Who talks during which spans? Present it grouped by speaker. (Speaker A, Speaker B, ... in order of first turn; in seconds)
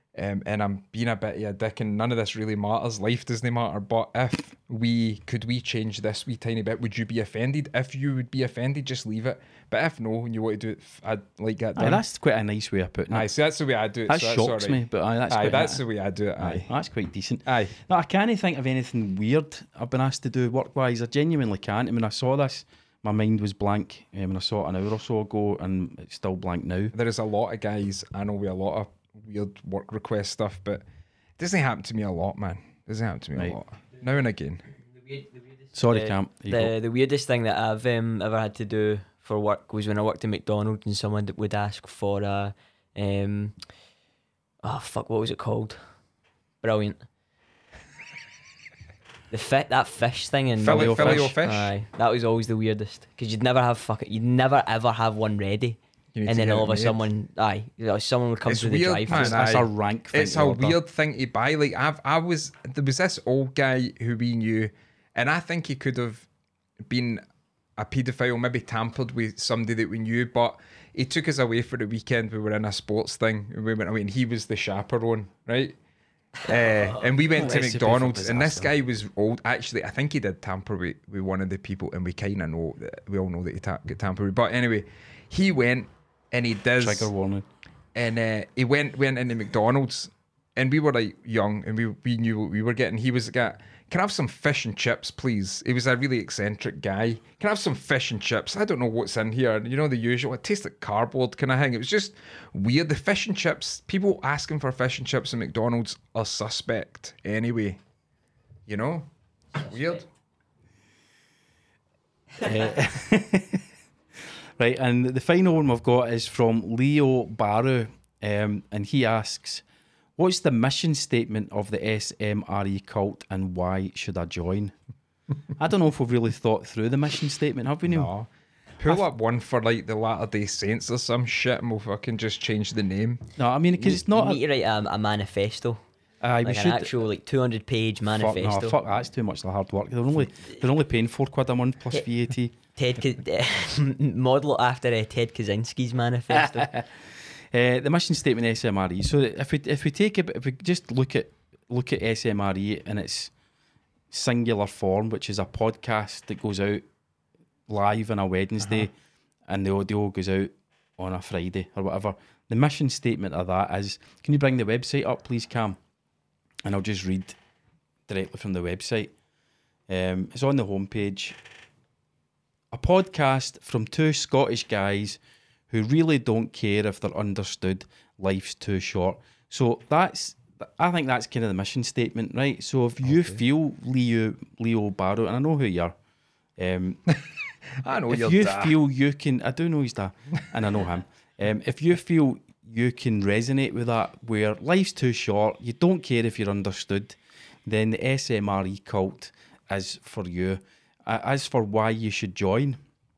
Speaker A: 0.1-12.0, 13.1-16.7, 17.4-17.7, 26.9-30.8, 31.4-34.6, 50.6-51.7, 56.1-57.0, 58.5-66.2, 66.9-67.2, 67.8-75.8, 76.4-87.1, 87.9-107.8, 108.7-110.0, 127.9-128.3, 128.8-133.2, 183.0-183.4, 187.8-188.8
Speaker B: 11.8-13.3, 14.1-15.8, 16.4-26.9, 35.7-36.7, 50.7-51.3, 59.1-60.8, 77.3-78.7, 86.8-87.4, 112.4-113.6, 114.6-119.6, 120.2-124.7, 125.6-128.1, 133.4-134.4, 136.2-137.0, 138.1-142.5, 146.3-146.9, 147.5-153.3, 154.1-156.8, 157.7-158.9, 159.5-165.8, 166.6-167.4, 168.1-169.1, 169.9-171.4, 172.7-185.9, 186.6-187.0, 188.1-202.8
Speaker C: 35.9-43.5, 44.6-45.8, 46.6-47.0, 49.3-59.4, 76.4-77.5, 109.6-110.0, 133.8-135.8, 136.4-138.8, 142.8-146.7